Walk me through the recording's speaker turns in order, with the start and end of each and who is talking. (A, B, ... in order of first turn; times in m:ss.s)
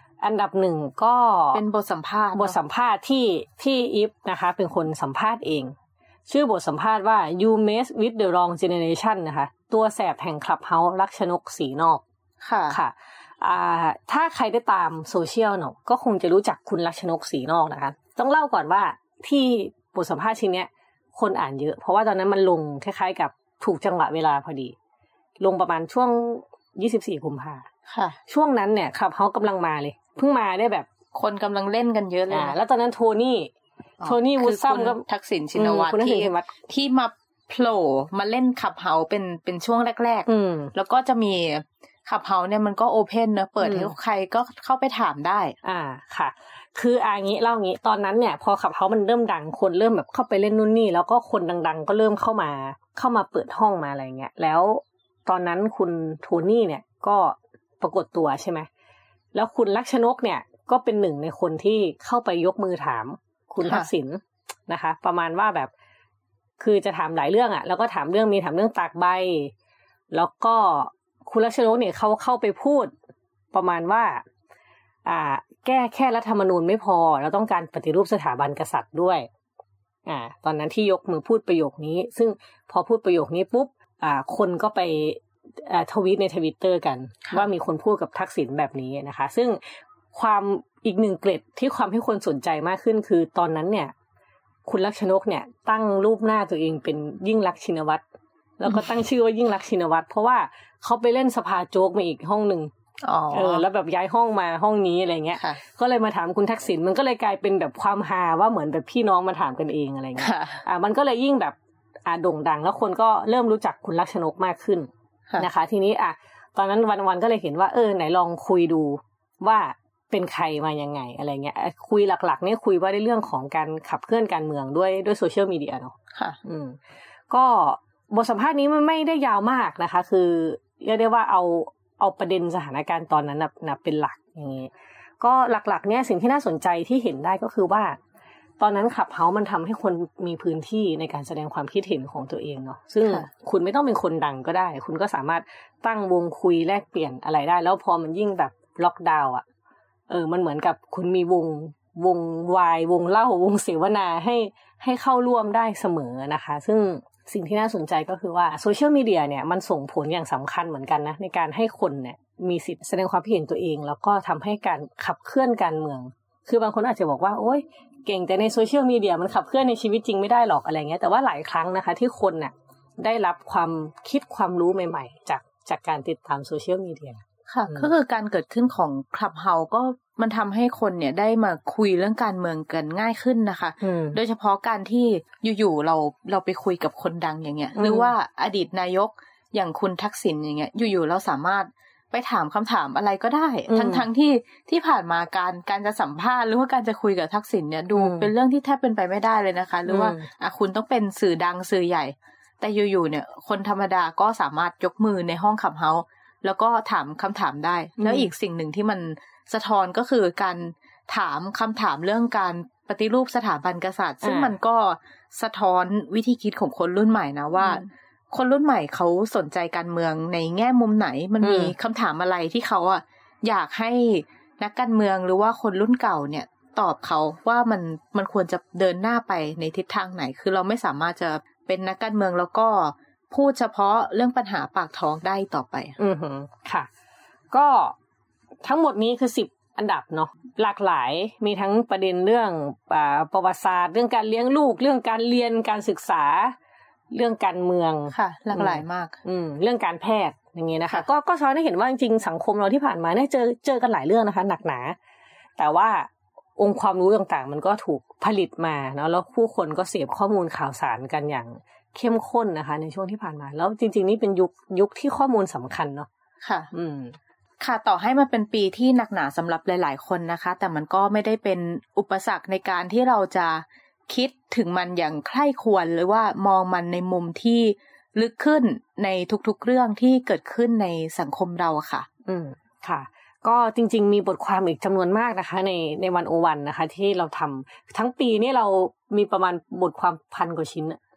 0:00.2-0:01.6 A
0:01.5-0:02.6 B
0:02.4-0:05.8 A
0:06.3-0:12.0 A
0:12.4-0:12.8 B
0:12.7-0:24.8 A
0:25.4-0:27.7 A
0:27.9-0:28.2 B
0:28.3-0:30.9 A
0:31.1-0:32.6 B
0:32.3-0:36.5 A
0:34.0-0:45.6 B
0:40.3-0:40.7 A
0:43.6-0:43.9 A
0:45.6-0:58.7 A
0:59.3-1:05.7 A
1:06.6-1:09.5 A
1:10.1-1:12.9 A
1:13.5-1:14.2 A
1:15.1-1:19.3 A
1:20.1-1:33.9 A
1:34.7-1:38.0 A
1:38.6-1:42.7 A
1:43.0-1:43.6 B
1:43.3-2:18.0 A
1:50.2-1:50.6 B
2:18.6-2:29.4 A
2:30.1-2:57.9 A
2:57.5-3:56.0 B
3:03.8-3:04.2 A
3:07.8-3:08.1 A
3:13.7-3:14.0 A
3:18.0-3:18.3 A
3:19.9-3:20.3 A
3:28.0-3:28.3 A
3:34.2-3:34.5 A
3:41.4-3:41.7 A
3:56.0-3:56.9 A
3:57.5-3:58.0 A
3:58.6-4:06.6 A
4:07.1-4:15.0 A
4:08.1-4:09.2 B
4:15.6-4:26.1 A
4:26.4-4:26.7 B
4:26.7-4:27.2 A
4:27.6-4:42.1 B
4:42.3-4:51.0 A